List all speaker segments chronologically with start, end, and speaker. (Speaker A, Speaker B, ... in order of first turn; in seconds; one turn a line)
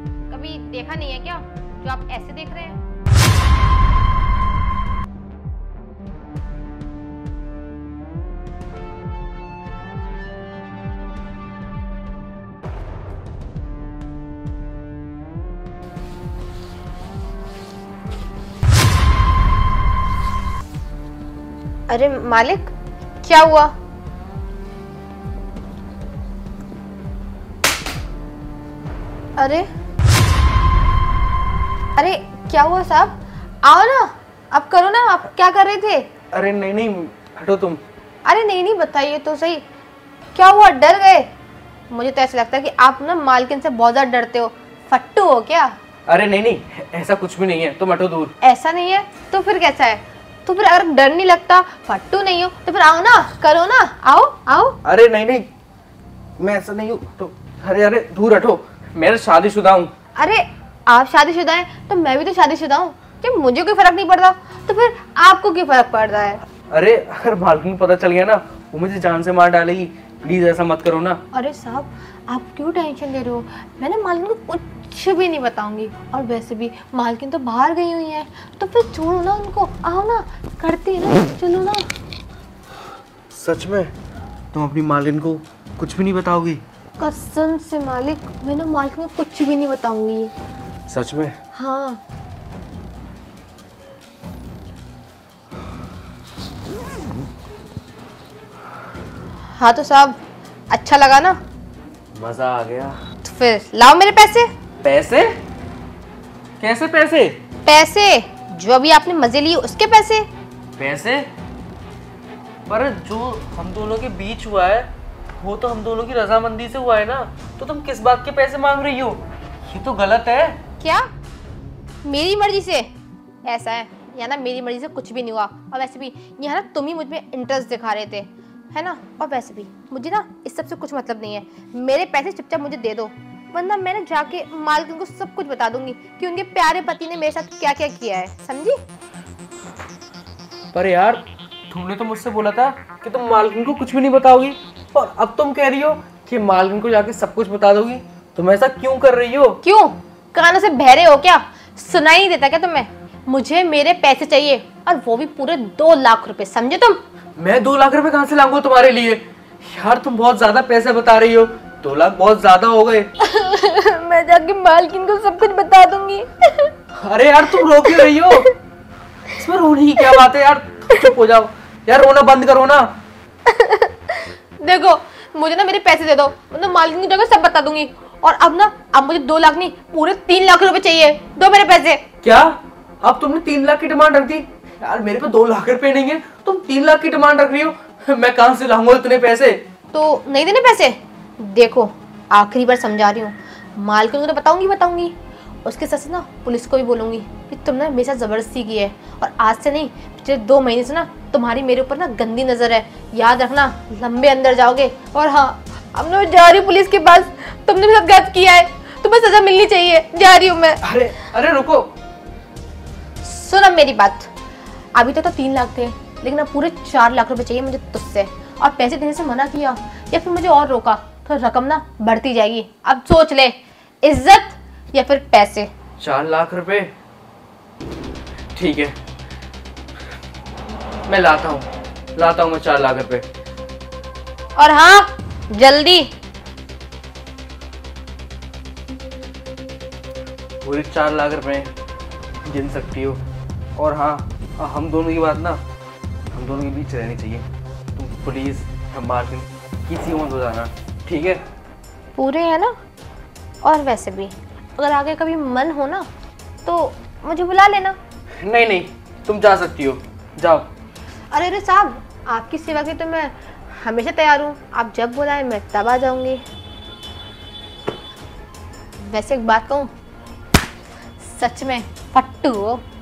Speaker A: 0.3-2.8
Speaker A: 21.9-23.7
Speaker A: 29.4-29.7
Speaker A: 31.9-36.1
Speaker B: 36.3-37.8
Speaker A: 38.2-39.6
Speaker A: 40.3-41.3
Speaker A: 41.9-45.8
Speaker B: 46.1-48.3
Speaker A: 48.4-54.8
Speaker B: 54.8-55.5
Speaker B: 56.4-59.9
Speaker A: 60.1-66.4
Speaker B: 66.7-71.2
Speaker A: 71.3-81.9
Speaker B: 83.3-83.9
Speaker B: 84.5-86.6
Speaker A: 87.0-90.3
Speaker B: 90.9-91.3
Speaker A: 91.5-92.0
Speaker A: 99.5-100.2
Speaker A: 100.7-101.4
Speaker B: 102.1-103.0
Speaker A: 103.2-104.5
Speaker B: 104.8-105.4
Speaker B: 106.6-107.4
Speaker A: 107.6-110.3
Speaker B: 110.8-111.3
Speaker B: 112.7-114.9
Speaker B: 115.4-120.6
Speaker A: 120.8-121.1
Speaker A: 122.0-122.9
Speaker A: 123.4-138.8
Speaker B: 140.7-149.6
Speaker A: 149.6-157.0
Speaker B: 157.3-163.1
Speaker A: 163.2-166.7
Speaker B: 166.9-168.5
Speaker A: 167.6-168.5
Speaker B: 169.3-172.9
Speaker A: 173.5-182.0
Speaker B: 182.2-189.6
Speaker A: 189.9-210.8
Speaker B: 210.8-211.9
Speaker A: 213.2-214.3
Speaker A: 214.9-225.7
Speaker B: 226.0-226.9
Speaker B: 228.5-228.9
Speaker B: 231.1-233.2
Speaker A: 234.6-236.1
Speaker B: 240.6-241.7
Speaker B: 242.4-243.2
Speaker B: 243.8-245.6
Speaker B: 246.3-247.4
Speaker B: 247.9-251.4
Speaker A: 252.2-252.8
Speaker A: 253.6-256.1
Speaker A: 256.6-258.0
Speaker B: 258.4-260.7
Speaker A: 261.3-266.4
Speaker A: 269.0-269.9
Speaker A: 271.2-272.8